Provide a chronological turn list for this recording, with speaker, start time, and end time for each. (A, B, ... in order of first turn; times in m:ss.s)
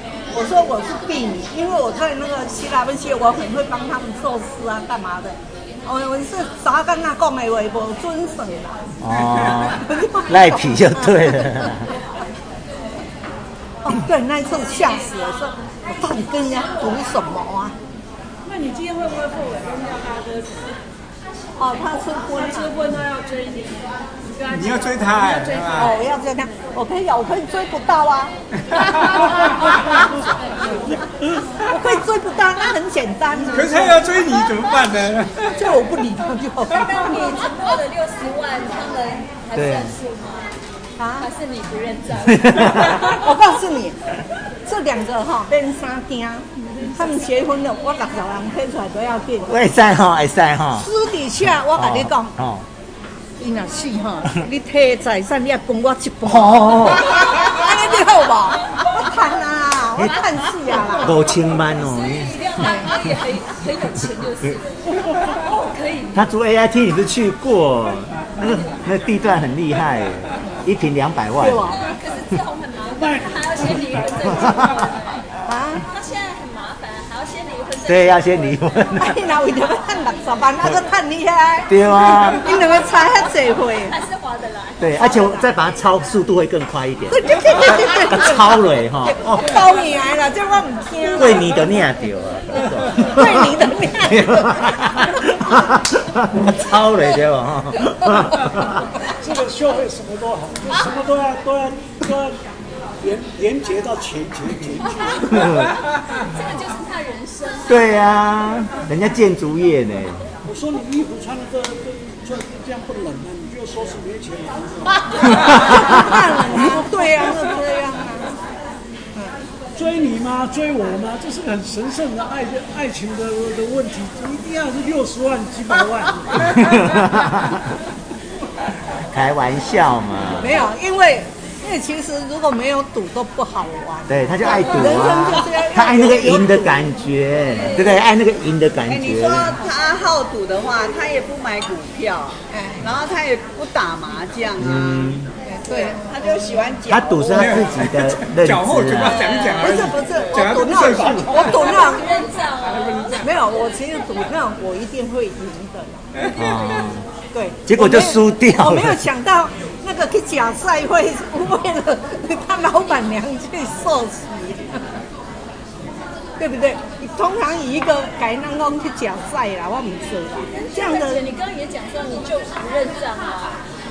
0:00.3-0:08.8 A
0:09.0-0:11.9 B
0:09.5-0:11.7 A
0:13.8-0:17.7 A
0:18.4-0:20.8 C
0:21.6-0:22.7 A
0:22.3-0:25.9 C
0:24.5-0:25.9 D
0:25.8-0:28.3 A
0:28.6-0:29.7 D
0:31.6-0:34.1 A
0:33.5-0:35.6 D
0:35.5-0:37.0 A
0:36.8-0:40.5 E
0:39.5-0:40.0 B
0:41.0-0:41.3 A
0:41.2-0:43.4 E
0:42.3-0:42.9 B
0:42.9-0:44.0 A
0:44.6-0:49.5 A
0:46.6-0:47.3 C
0:49.5-0:50.9 B
0:50.8-0:52.3 A
0:51.7-0:52.6 B
0:53.4-1:01.1 A
0:56.2-0:57.4 B
1:00.0-1:00.2 B
1:00.9-1:03.0 B
1:01.6-1:06.2 E
1:02.6-1:02.9 A
1:06.1-1:11.8 B
1:08.4-1:08.7 E
1:11.4-1:11.8 A
1:11.7-1:15.2 E
1:13.0-1:14.3 F
1:15.4-1:15.8 A
1:15.8-1:18.7 E
1:17.8-1:19.2 B
1:19.0-1:23.9 A
1:21.7-1:22.6 B
1:23.8-1:25.5 E
1:24.8-1:29.7 B
1:27.1-1:31.7 A
1:31.1-1:33.4 B
1:32.9-1:35.5 A
1:34.0-1:38.8 B
1:39.1-1:42.4 F
1:43.0-1:45.5 F
1:45.2-1:47.9 E
1:45.3-1:45.7 B
1:47.7-1:50.2 B
1:50.4-1:57.4 F
1:55.0-1:58.3 A
1:59.7-2:06.6 F
2:06.4-2:07.6 B
2:09.1-2:10.6 B
2:10.4-2:16.9 A
2:14.1-2:19.6 B
2:17.4-2:18.0 E
2:18.8-2:27.6 G
2:22.5-2:22.8 A
2:24.6-2:25.3 B
2:25.4-2:26.0 A
2:26.9-2:29.3 B
2:27.3-2:31.9 D
2:29.3-2:29.7 E
2:29.6-2:32.2 A
2:30.4-2:31.5 F
2:31.4-2:33.3 E
2:32.4-2:33.2 D
2:33.2-2:36.1 A
2:36.2-2:36.9 E
2:36.3-2:37.0 B
2:37.3-2:44.8 A
2:37.6-2:39.1 B
2:46.4-2:51.2 A
2:50.5-2:53.6 E